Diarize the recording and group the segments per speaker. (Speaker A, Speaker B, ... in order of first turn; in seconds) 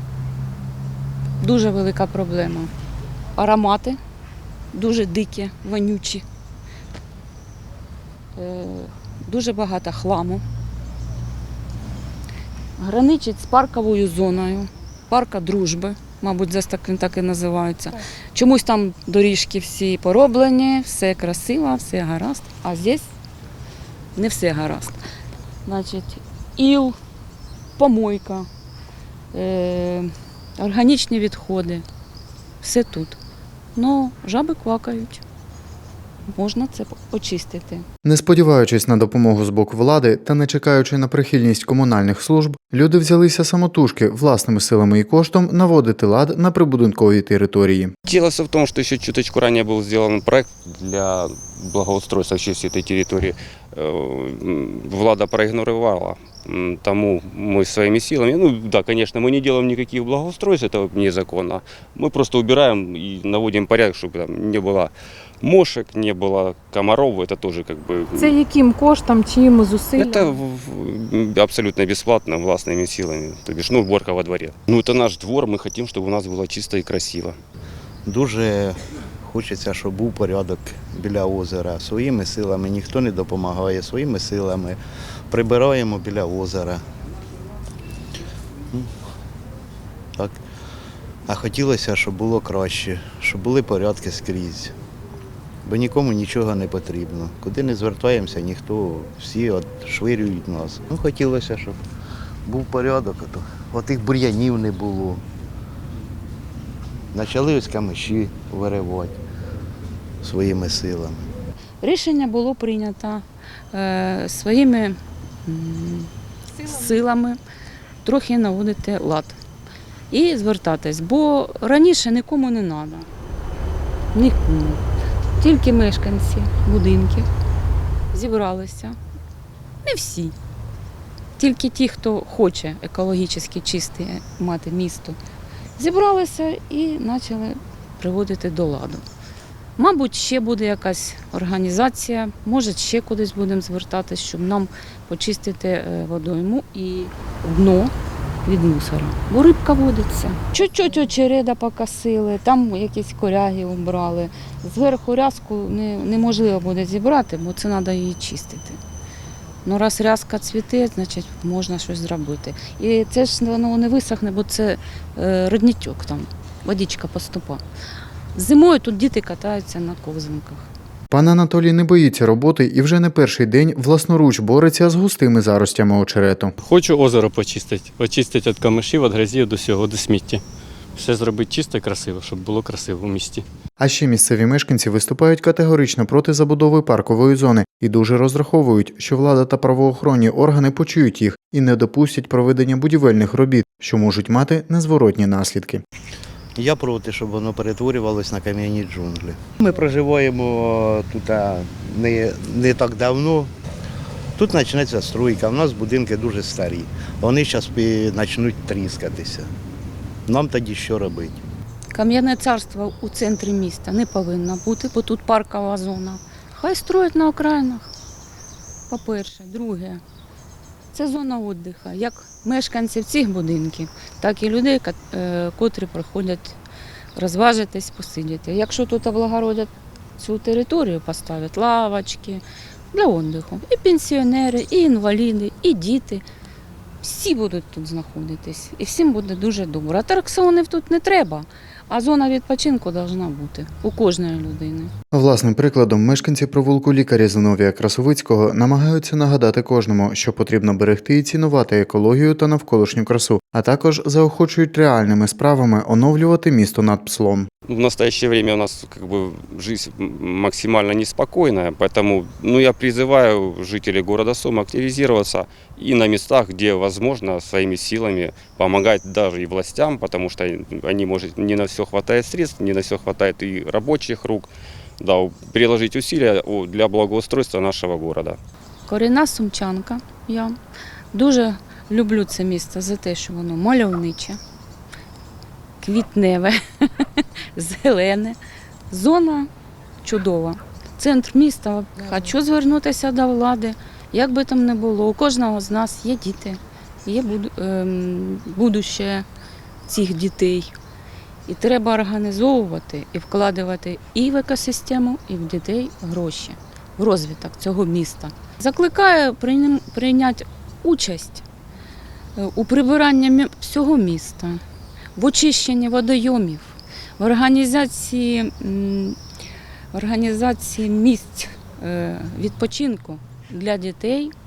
Speaker A: 1.4-2.7, 3.4-4.0, 4.7-6.2, 8.3-10.4, 12.8-23.1, 24.1-25.0, 25.6-26.9, 27.8-28.4, 29.3-31.8, 32.6-33.2, 33.8-35.2, 36.3-37.9, 111.8-116.1, 116.6-117.4, 118.0-119.3, 120.1-123.1, 124.1-124.8, 125.4-127.2, 128.1-128.9, 129.8-130.3, 131.4-135.2, 135.8-139.0, 139.8-147.9, 148.4-158.8, 159.6-167.6, 168.3-170.7, 211.9-217.9, 218.9-220.0, 220.9-226.6, 227.2-236.2, 237.0-244.9, 278.9-280.6, 281.1-284.4, 285.8-288.4, 288.9-289.5, 290.0-299.2, 299.9-300.7, 301.5-311.4, 312.4-314.6, 315.1-319.2, 319.9-324.3
Speaker B: 38.0-47.9, 171.1-176.5, 183.8-195.8, 245.1-257.5
Speaker C: 48.1-68.4, 69.9-77.3, 257.7-278.4
Speaker D: 68.1-70.4, 116.6-116.9
Speaker E: 78.0-84.8, 85.3-86.8, 91.3-94.7, 95.6-101.8, 102.5-105.2, 107.1-109.2, 110.2-111.3, 196.6-203.5, 204.4-209.5, 210.2-211.4
Speaker F: 176.6-180.4, 181.0-183.4